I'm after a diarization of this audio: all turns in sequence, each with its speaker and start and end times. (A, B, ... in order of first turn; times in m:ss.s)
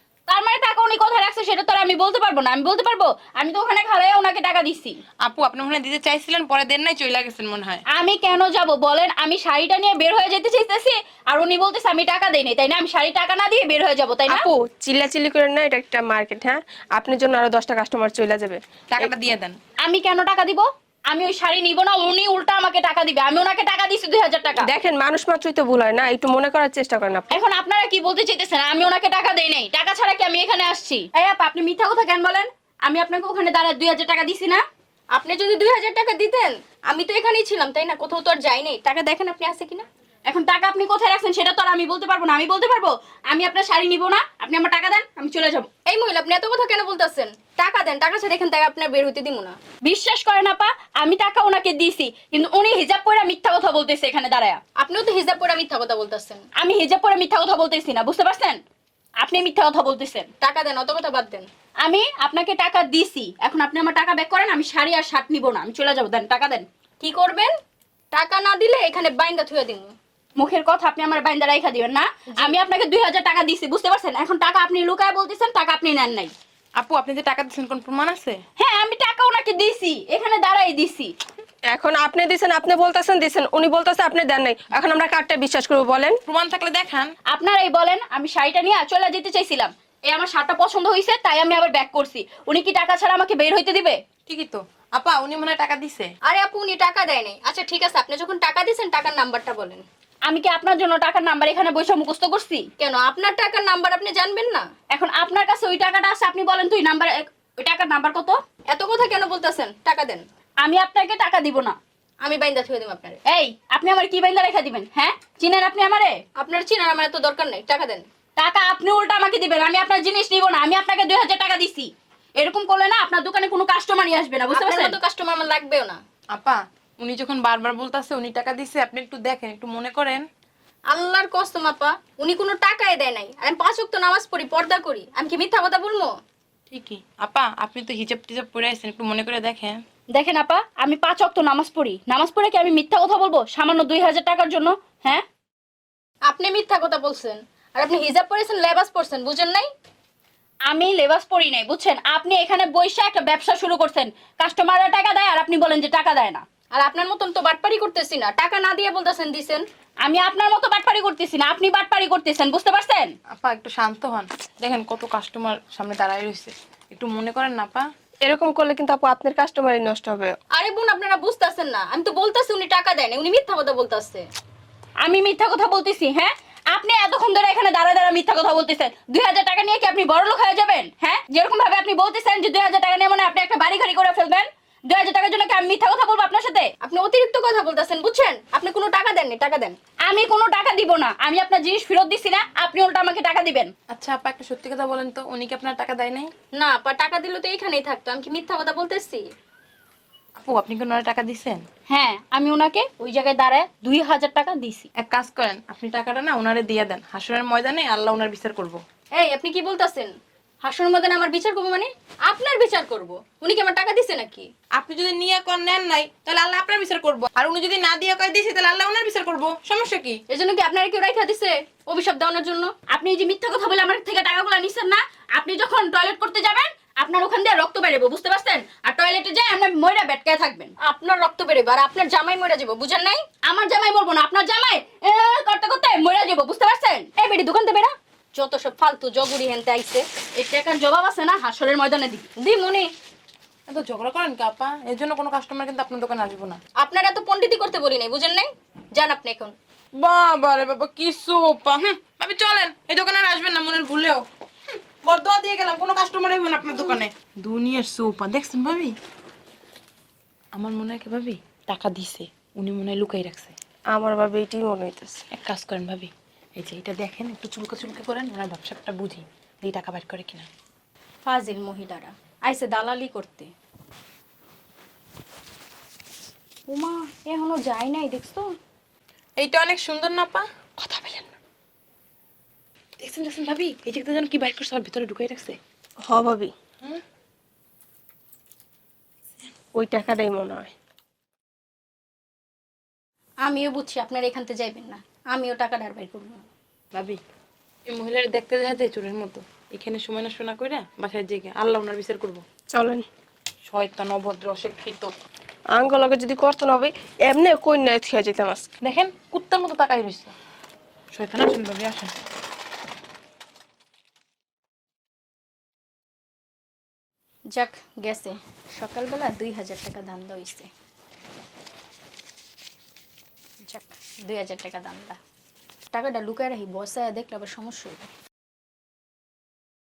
0:00.3-0:05.0 A
0:05.2-0:07.8 B
0:07.9-0:14.5 A
0:14.3-0:19.1 C
0:18.9-0:19.6 B
0:19.8-0:24.7 A
0:24.6-0:27.2 C
0:27.3-0:34.6 A
0:35.1-0:39.8 D
0:40.3-0:45.7 A
0:45.9-0:49.6 D
0:49.8-0:54.6 A
0:54.8-0:56.4 D
0:56.6-0:58.6 A
0:59.2-1:00.3 A
1:00.4-1:01.5 D
1:01.8-1:06.6 A
1:07.0-1:07.5 D
1:08.1-1:09.9 D
1:10.4-1:16.3 A
1:16.8-1:18.4 B
1:18.6-1:21.1 A
1:21.7-1:26.2 C
1:26.2-1:27.1 B
1:27.3-1:34.0 A
1:34.3-1:36.1 B
1:36.2-1:39.8 D
1:40.3-1:42.7 A
1:42.8-1:44.6 D
1:44.9-1:48.4 A
1:48.7-1:50.2 D
1:50.6-1:51.8 A
1:52.2-1:53.2 D
1:53.2-1:56.2 A
1:56.4-1:58.0 D
1:58.4-2:05.0 A
2:04.5-2:06.0 D
2:06.3-2:10.2 B
2:10.9-2:16.2 D
2:16.7-2:19.8 B
2:20.1-2:25.2 A
2:26.3-2:29.7 D
2:30.7-2:36.4 A
2:36.7-2:39.6 D
2:40.0-2:43.1 A
2:43.3-2:47.8 B
2:48.2-2:50.4 C
2:50.5-2:54.3 D
2:55.0-3:06.7 A
3:06.8-3:09.8 D
3:10.0-3:13.7 A
3:13.9-3:16.3 B
3:16.5-3:19.2 D
3:20.4-3:21.6 B
3:21.9-3:24.9 A
3:25.0-3:28.8 B
3:29.1-3:34.5 D
3:34.8-3:40.2 B
3:40.3-3:42.7 D
3:42.9-3:50.7 A
3:50.8-3:53.2 D
3:53.4-3:57.1 A
3:57.2-4:00.0 D
4:00.3-4:02.3 A
4:02.4-4:02.9 D
4:03.7-4:06.6 B
4:06.8-4:09.5 D
4:10.0-4:14.2 B
4:15.0-4:19.0 B
4:20.5-4:23.5 B
4:23.9-4:25.2 C
4:25.3-4:30.5 B
4:31.2-4:33.5 D
4:36.7-4:38.5 D
4:39.4-4:40.4 B
4:40.8-4:41.2 C
4:43.0-4:45.6 B
4:46.0-4:46.5 C
4:49.7-4:50.7 C
4:53.4-4:56.4 D
4:56.9-4:57.2 B
4:57.9-5:02.4 B
5:02.7-5:03.0 C
5:03.6-5:05.1 B
5:05.7-5:08.7 C
5:08.8-5:10.3 B
5:11.1-5:12.1 B
5:17.5-5:20.7 D
5:23.6-5:25.2 D
5:25.9-5:28.1 D